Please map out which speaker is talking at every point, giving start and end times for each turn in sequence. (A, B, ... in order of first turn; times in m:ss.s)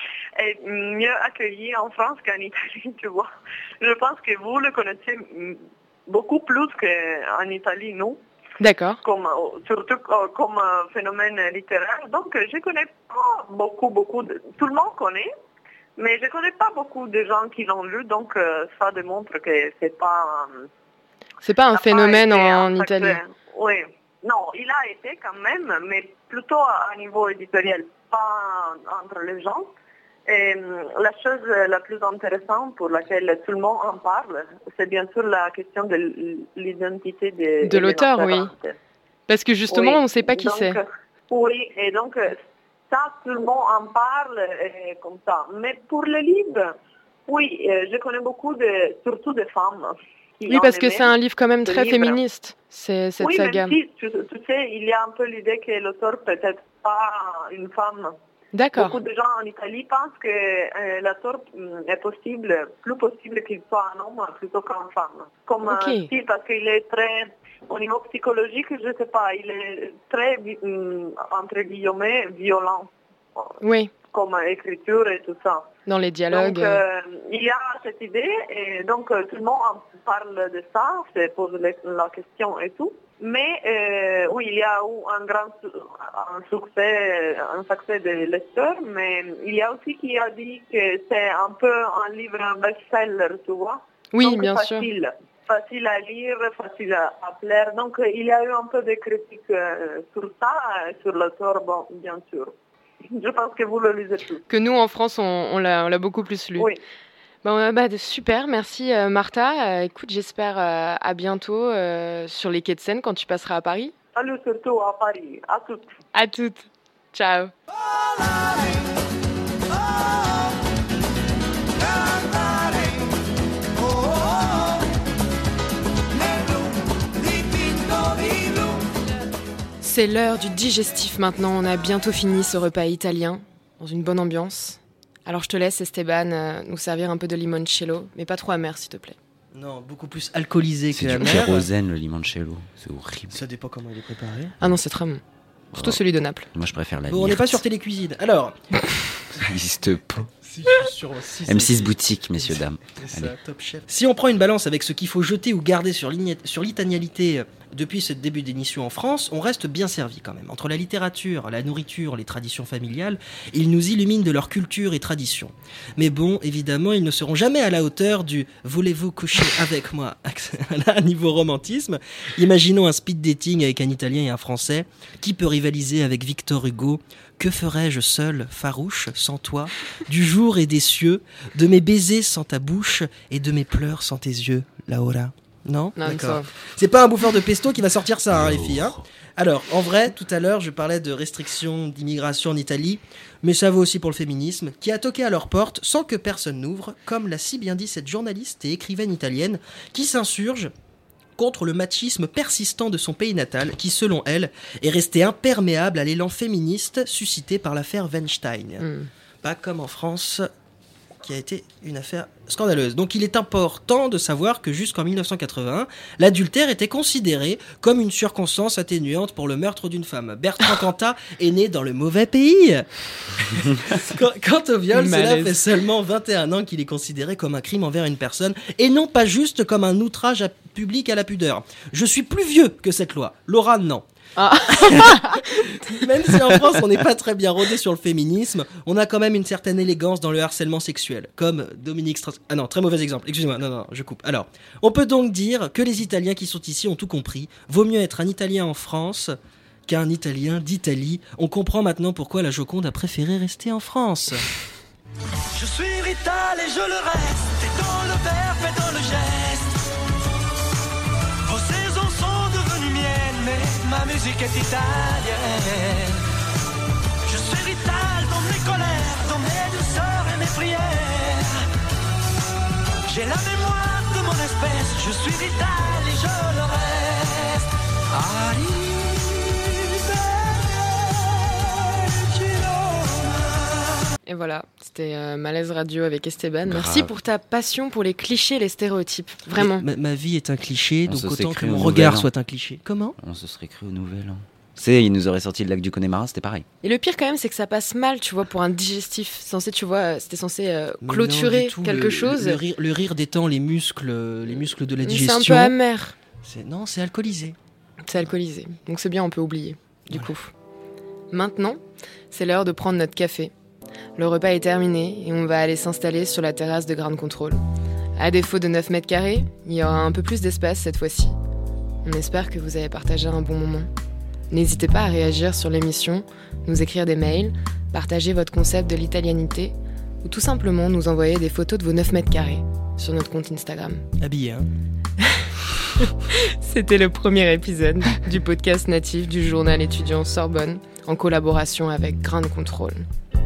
0:00.4-0:08.2 A
0:08.6-0:09.0 B
0:09.0-0:15.3 A
0:16.0-0:20.7 A
0:21.4-0:23.2 B
0:21.7-0:29.7 A
0:30.2-0:38.8 A
0:37.6-0:38.5 B
0:39.3-0:40.8 B
0:39.7-0:42.4 A
0:42.9-0:46.7 A
0:47.3-0:51.1 A
0:50.4-0:53.8 B
0:51.6-0:52.2 A
0:53.2-0:58.1 A
0:58.5-0:59.0 B
0:58.7-1:15.7 A
1:05.6-1:06.1 B
1:13.6-1:13.9 B
1:15.8-1:16.8 B
1:16.3-1:42.5 A
1:34.1-1:34.9 B
1:43.1-1:44.4 A
1:44.5-1:46.7 B
1:47.4-1:53.9 B
1:54.1-1:55.9 A
1:56.1-1:57.5 B
1:58.2-1:58.7 C
2:02.0-2:02.9 C
2:03.8-2:04.6 C
2:06.1-2:08.8 C
2:09.8-2:19.2 B
2:19.5-2:21.7 D
2:20.9-2:23.4 E
2:23.3-2:24.6 D
2:24.6-2:25.2 B
2:25.7-2:26.0 E
2:25.7-2:26.5 B
2:26.5-2:27.6 E
2:27.1-2:28.6 D
2:29.4-2:30.3 E
2:30.4-3:20.7 D
2:31.5-2:33.3 E
3:06.0-3:06.5 B
3:08.3-3:09.0 E
3:21.4-3:28.9 D
3:28.8-3:29.1 B
3:29.4-3:30.5 D
3:31.2-3:54.0 D
3:44.9-3:45.6 B
3:54.4-3:55.9 B
3:54.8-4:09.3 D
4:09.9-4:14.4 D
4:15.5-4:19.8 C
4:21.4-4:26.2 C
4:27.2-4:31.6 C
4:33.0-4:40.9 C
4:42.1-4:43.5 C
4:44.2-4:49.8 B
4:46.6-4:47.1 E
4:49.5-4:53.1 D
4:51.1-4:52.3 E
4:53.2-4:56.7 E
4:56.8-5:02.6 B
5:01.0-5:05.7 D
5:05.0-5:06.2 B
5:06.4-5:07.6 D
5:08.1-5:10.5 B
5:11.3-5:11.8 B
5:12.3-5:13.5 B
5:14.2-5:17.6 B
5:18.2-5:21.4 B
5:22.0-5:23.9 B
5:24.5-5:34.0 B
5:34.2-5:34.7 D
5:35.2-5:35.5 B
5:36.0-5:43.0 B